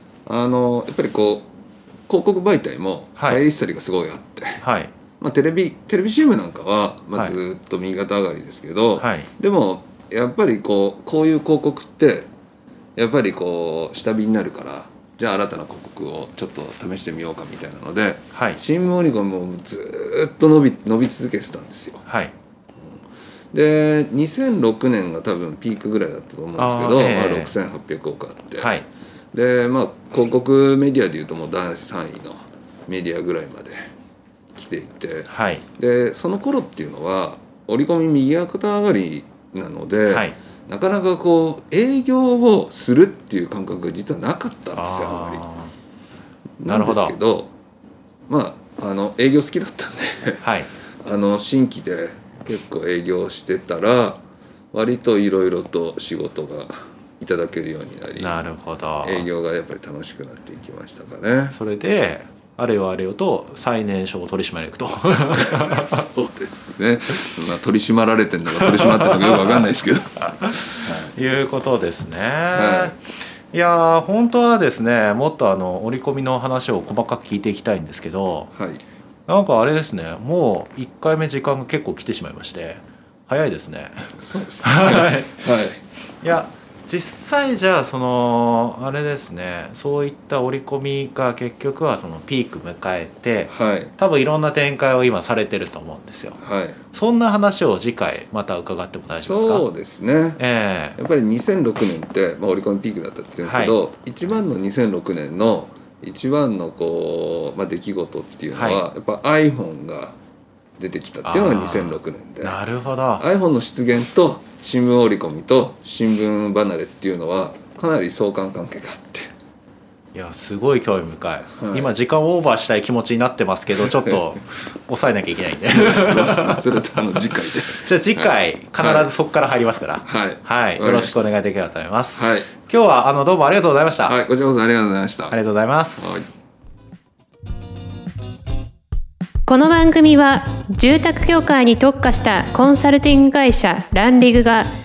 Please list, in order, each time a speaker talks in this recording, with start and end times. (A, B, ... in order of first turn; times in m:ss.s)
0:00.3-0:01.5 A
0:02.1-0:04.6 A
0:03.2-0:03.4 B
0:04.6-0:04.9 B
0:05.2-0:12.3 A
0:09.0-0:09.3 B
0:13.0-0:22.0 A
0:18.3-0:18.6 B
0:22.0-0:22.3 B
0:23.5-0:28.8 A
0:26.6-0:27.5 B
0:28.6-0:28.9 B
0:29.3-0:33.8 A
0:34.6-0:45.4 A
0:35.3-0:35.6 B
0:40.1-0:40.4 B
0:44.7-0:45.7 B
0:46.6-0:47.5 A
0:46.6-0:47.2 B
0:48.3-0:50.4 A
0:50.4-0:50.7 B
0:51.0-0:54.2 A
0:54.7-0:58.4 A
0:58.2-0:59.3 B
0:59.0-1:01.6 A
1:01.5-1:06.0 B
1:05.3-1:11.1 A
1:08.6-1:09.4 B
1:11.1-1:13.0 B
1:12.5-1:13.0 A
1:13.5-1:18.5 B
1:18.5-1:18.8 A
1:19.3-1:24.1 B
1:24.2-1:25.8 A
1:24.6-1:25.3 B
1:26.2-1:36.4 B
1:33.5-1:33.9 A
1:36.4-1:36.8 A
1:36.9-1:39.7 B
1:39.1-1:40.4 A
1:40.4-1:41.0 B
1:41.0-1:50.2 A
1:43.4-1:43.8 B
1:48.5-1:48.8 B
1:50.8-1:52.6 A
1:51.2-1:53.3 B
1:53.2-1:59.3 A
2:00.1-2:06.6 B
2:01.6-2:01.9 A
2:03.8-2:04.2 A
2:05.7-2:09.1 A
2:07.7-2:14.2 B
2:10.0-2:11.2 A
2:12.2-2:12.5 A
2:14.0-2:15.4 A
2:15.3-2:16.2 B
2:16.0-2:16.3 A
2:19.5-2:24.7 C